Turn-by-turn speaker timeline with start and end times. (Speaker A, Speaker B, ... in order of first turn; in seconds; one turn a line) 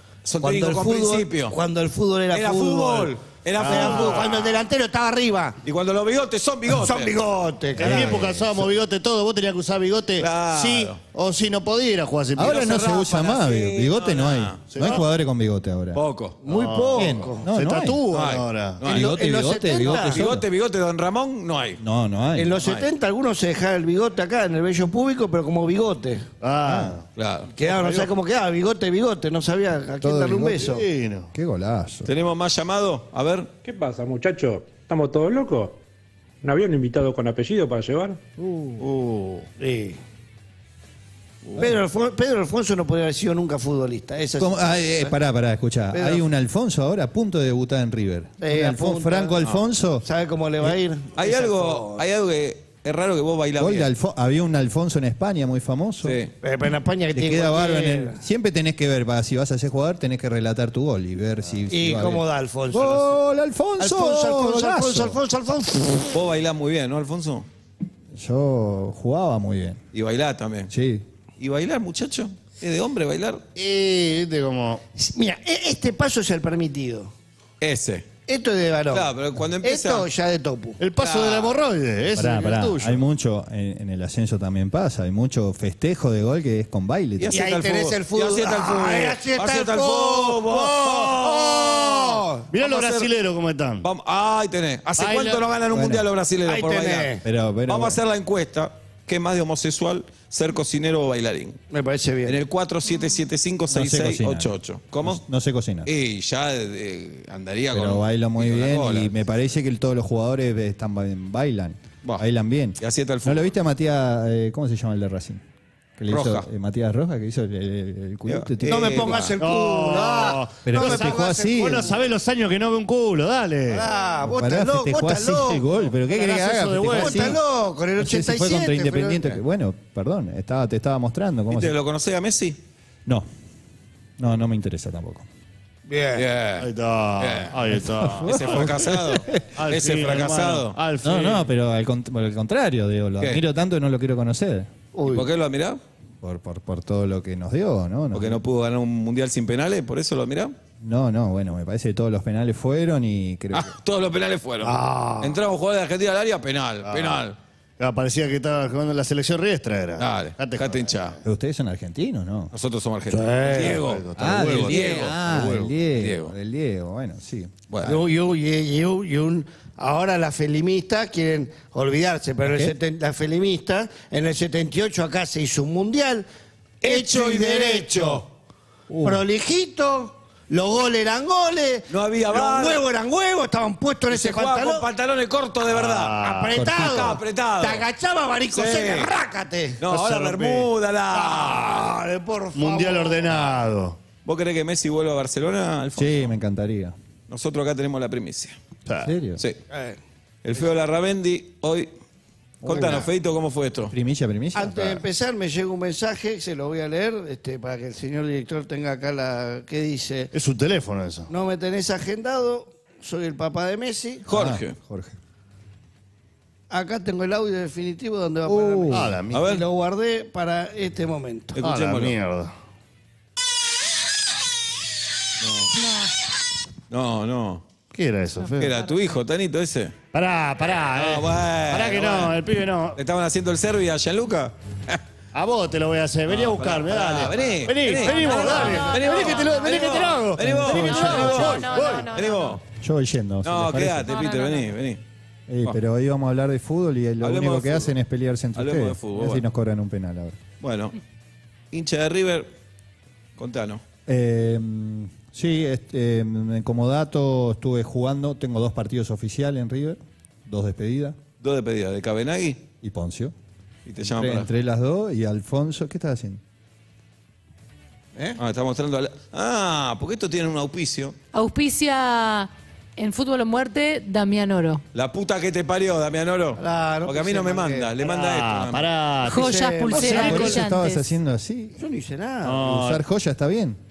Speaker A: 0.2-1.6
Speaker B: 0.4-5.6
Speaker A: 2.3-4.5
Speaker C: 3.6-4.2
Speaker A: 5.6-7.2
Speaker B: 6.7-8.3
Speaker C: 7.8-12.6
Speaker D: 7.8-8.3
Speaker A: 7.8-8.2
Speaker A: 10.2-11.0
Speaker D: 12.4-16.0
Speaker A: 12.4-14.9
Speaker C: 14.7-15.1
Speaker A: 15.9-16.4
Speaker B: 16.4-17.5
Speaker C: 16.5-18.8
Speaker D: 16.9-18.0
Speaker A: 18.1-19.1
Speaker B: 18.9-20.3
Speaker D: 18.9-20.5
Speaker A: 19.8-21.8
Speaker D: 21.8-22.6
Speaker B: 22.4-26.3
Speaker A: 22.6-22.9
Speaker C: 26.4-27.1
Speaker D: 26.6-27.0
Speaker A: 27.2-28.0
Speaker B: 27.6-30.9
Speaker D: 30.0-30.6
Speaker C: 30.6-31.3
Speaker D: 31.3-32.1
Speaker A: 32.1-33.5
Speaker E: 33.6-35.8
Speaker E: 36.4-38.2
Speaker D: 38.4-38.8
Speaker C: 38.8-39.5
Speaker B: 39.6-40.0
Speaker D: 41.6-41.8
Speaker B: 41.6-45.2
Speaker D: 44.4-50.1
Speaker B: 45.9-46.2
Speaker B: 48.4-49.4
Speaker B: 50.0-52.1
Speaker A: 51.2-53.9
Speaker D: 53.6-56.2
Speaker A: 56.0-56.3
Speaker B: 56.4-58.2
Speaker D: 57.1-65.2
Speaker B: 61.7-63.2
Speaker B: 63.8-66.2
Speaker A: 66.1-67.5
Speaker D: 68.2-69.8
Speaker A: 69.9-70.7
Speaker D: 70.7-71.0
Speaker A: 71.4-73.4
Speaker C: 73.5-74.8
Speaker B: 75.0-77.1
Speaker A: 77.6-78.1
Speaker B: 78.3-80.8
Speaker A: 78.9-80.1
Speaker C: 80.8-83.0
Speaker A: 81.0-81.6
Speaker D: 82.1-87.4
Speaker A: 87.2-92.1
Speaker B: 87.3-92.5
Speaker C: 91.0-93.9
Speaker A: 92.6-93.1
Speaker A: 93.8-101.6
Speaker C: 95.0-95.4
Speaker D: 95.7-96.1
Speaker B: 96.4-97.2
Speaker D: 97.2-98.0
Speaker B: 101.7-102.4
Speaker A: 102.2-105.2
Speaker D: 103.7-105.9
Speaker A: 105.8-109.2
Speaker D: 107.7-115.4
Speaker A: 112.8-113.5
Speaker D: 116.0-119.2
Speaker A: 116.1-116.5
Speaker A: 118.2-119.4
Speaker B: 118.7-122.0
Speaker C: 119.4-123.9
Speaker D: 120.6-121.9
Speaker B: 123.7-125.7
Speaker D: 124.2-127.4
Speaker C: 125.9-127.4
Speaker B: 126.9-129.4
Speaker D: 128.0-131.8
Speaker A: 131.5-132.6
Speaker D: 134.2-135.3
Speaker B: 135.9-136.2
Speaker A: 136.2-137.6
Speaker C: 136.6-138.9
Speaker D: 137.7-139.5
Speaker A: 138.2-140.8
Speaker C: 139.5-141.5
Speaker D: 141.0-144.7
Speaker B: 144.9-145.3
Speaker A: 145.1-145.8
Speaker D: 146.2-148.4
Speaker A: 148.1-150.6
Speaker D: 150.8-153.7
Speaker A: 153.5-157.4
Speaker B: 154.6-155.4
Speaker C: 156.8-157.3
Speaker C: 157.8-161.1
Speaker A: 160.0-161.2
Speaker D: 161.2-162.5
Speaker A: 162.5-166.3
Speaker B: 163.1-163.8
Speaker C: 163.5-165.1
Speaker D: 164.2-168.0
Speaker B: 167.8-176.3
Speaker D: 172.5-172.8
Speaker B: 176.8-178.2
Speaker A: 176.8-178.2
Speaker D: 178.9-179.2
Speaker B: 179.0-184.9
Speaker A: 181.9-182.8
Speaker A: 184.1-187.9
Speaker C: 185.7-186.6
Speaker B: 186.2-189.8
Speaker D: 186.5-187.1
Speaker A: 188.5-189.1
Speaker A: 189.8-191.9
Speaker C: 189.9-190.7
Speaker B: 191.1-193.4
Speaker C: 192.6-194.0
Speaker A: 194.2-196.3
Speaker D: 196.0-196.9
Speaker A: 197.3-198.6
Speaker C: 198.9-199.1
Speaker D: 199.0-199.4
Speaker B: 199.7-200.0
Speaker A: 200.4-201.9
Speaker D: 202.6-203.1
Speaker A: 202.6-203.9
Speaker B: 202.7-203.1
Speaker D: 203.9-205.0
Speaker B: 204.5-210.3
Speaker C: 210.3-211.3
Speaker B: 211.3-214.3
Speaker A: 214.3-214.8
Speaker D: 214.3-215.2
Speaker B: 216.7-221.6
Speaker D: 218.4-219.2
Speaker C: 218.9-219.6
Speaker A: 219.3-219.6
Speaker A: 221.6-222.2
Speaker C: 221.6-222.5
Speaker A: 225.4-225.7
Speaker A: 226.9-227.6
Speaker C: 227.9-228.7
Speaker A: 228.6-229.9
Speaker C: 230.1-233.0
Speaker A: 231.0-235.0
Speaker C: 235.3-242.1
Speaker A: 236.3-242.6
Speaker F: 238.1-242.6
Speaker D: 240.4-241.7
Speaker D: 242.8-244.1
Speaker A: 243.4-245.0
Speaker F: 244.1-244.7
Speaker D: 245.5-250.4
Speaker A: 247.2-247.9
Speaker A: 248.6-249.4
Speaker A: 250.6-251.0
Speaker A: 251.7-252.5
Speaker A: 253.4-253.8
Speaker D: 254.1-261.2
Speaker A: 261.4-262.6
Speaker D: 262.8-263.3
Speaker A: 263.9-264.5
Speaker D: 264.0-266.4
Speaker A: 268.4-271.1
Speaker F: 271.3-274.8
Speaker A: 274.9-278.9
Speaker B: 276.6-278.2
Speaker C: 278.1-280.6
Speaker B: 279.2-280.6
Speaker F: 279.3-281.1
Speaker D: 279.9-281.8
Speaker B: 281.8-282.6
Speaker C: 282.4-283.0
Speaker D: 282.6-283.8